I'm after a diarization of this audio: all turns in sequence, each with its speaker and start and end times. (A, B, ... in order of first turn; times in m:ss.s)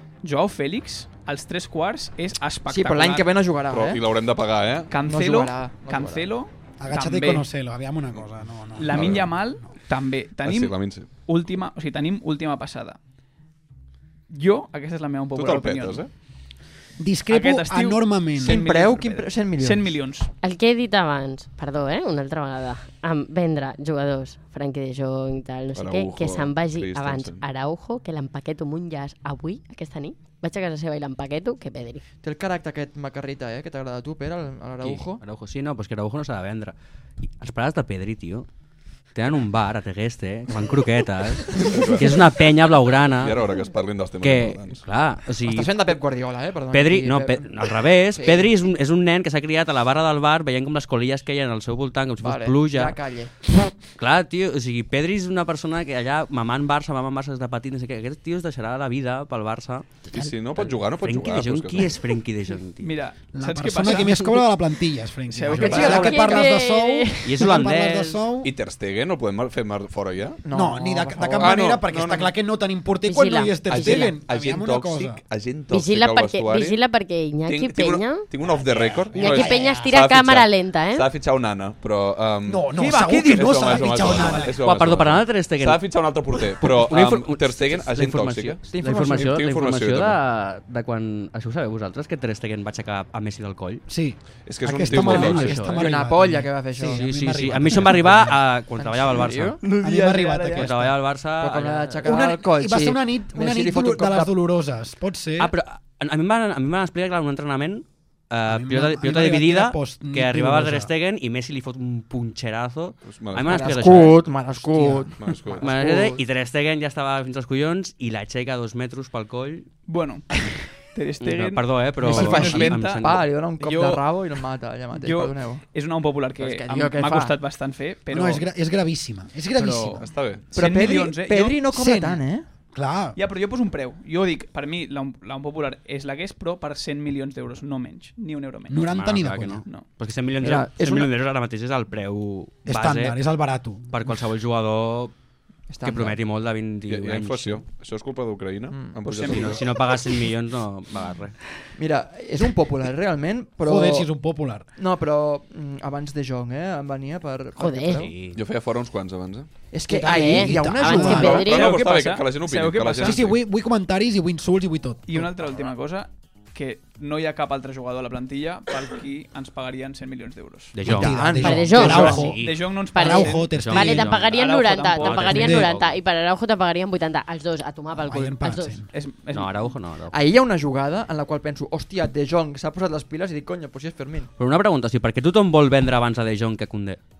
0:00.2-0:03.3 A
0:02.7-0:04.0 B
0:03.7-0:04.9 C
0:04.9-0:07.4 A
0:05.0-0:06.3 B
0:06.8-0:09.6 D
0:08.8-0:13.0 A
0:08.9-0:09.3 C
0:10.4-0:11.1 C
0:14.3-0:16.0 A
0:15.3-0:16.1 C
0:17.0-0:18.6 D
0:17.3-0:20.3 A
0:18.4-0:19.9 B
0:20.4-0:32.0 E
0:25.7-0:27.4 C
0:32.2-0:35.2 B
0:34.8-0:36.7 F
0:37.4-0:38.5 F
0:39.1-0:43.4 F
0:41.6-0:42.3 C
0:43.2-0:44.8 C
0:44.2-0:45.8 F
0:45.4-0:48.5 B
0:46.7-0:53.0 F
0:52.2-0:53.3 B
0:54.0-1:02.9 F
1:00.1-1:02.0 C
1:02.8-1:04.4 A
1:03.3-1:08.5 D
1:05.3-1:06.2 A
1:05.5-1:06.5 B
1:05.9-1:07.4 E
1:07.2-1:08.2 F
1:08.4-1:10.4 C
1:10.4-1:11.6 B
1:10.5-1:15.2 D
1:11.4-1:12.3 C
1:13.0-1:14.2 E
1:13.7-1:16.8 C
1:15.7-1:18.3 E
1:17.4-1:30.2 C
1:18.5-1:19.9 D
1:19.1-1:21.1 E
1:22.4-1:24.6 D
1:22.7-1:23.6 A
1:24.6-1:33.8 F
1:28.7-1:29.2 B
1:33.9-1:38.4 D
1:34.4-1:35.6 C
1:34.9-1:35.8 F
1:35.0-1:37.4 B
1:36.8-1:39.6 F
1:38.8-1:40.6 B
1:39.6-1:40.6 A
1:39.8-1:41.0 D
1:40.5-1:42.2 F
1:41.4-1:44.3 B
1:42.0-1:45.5 D
1:45.4-1:54.2 F
1:48.4-1:50.9 D
1:53.0-1:53.8 C
1:53.5-1:56.2 B
1:54.7-1:55.1 D
1:55.2-1:55.8 C
1:55.6-1:59.7 F
1:59.9-2:00.3 A
2:00.9-2:04.0 A
2:01.2-2:03.2 F
2:02.0-2:05.6 B
2:04.9-2:08.4 A
2:06.4-2:07.4 B
2:08.1-2:10.0 D
2:10.0-2:10.5 C
2:10.5-2:11.6 A
2:10.5-2:12.4 B
2:11.7-2:12.2 D
2:12.7-2:13.2 D
2:13.2-2:18.8 A
2:18.7-2:19.6 D
2:18.7-2:23.2 F
2:20.4-2:21.1 B
2:22.6-2:24.1 D
2:23.9-2:25.1 F
2:25.7-2:26.2 B
2:25.8-2:27.6 F
2:26.9-2:29.6 C
2:28.7-2:29.2 B
2:29.2-2:31.3 F
2:31.8-2:34.1 B
2:33.6-2:34.6 D
2:34.8-2:38.1 B
2:37.6-2:38.1 E
2:37.9-2:38.4 F
2:38.3-2:39.5 C
2:39.7-2:41.6 B
2:39.9-2:41.5 D
2:39.9-2:41.8 E
2:41.1-2:43.4 C
2:41.4-2:43.2 A
2:43.0-2:45.2 D
2:45.1-2:50.8 A
2:50.7-2:52.7 F
2:50.8-2:54.1 D
2:50.8-2:52.2 B
2:51.4-2:52.3 E
2:51.9-2:53.6 A
2:52.9-2:58.8 E
2:53.5-2:56.0 F
2:54.2-2:55.6 A
2:55.3-2:55.7 D
2:58.0-2:58.8 D
2:58.9-2:59.8 A
2:59.3-3:00.1 F
3:00.1-3:04.3 B
3:04.4-3:07.0 F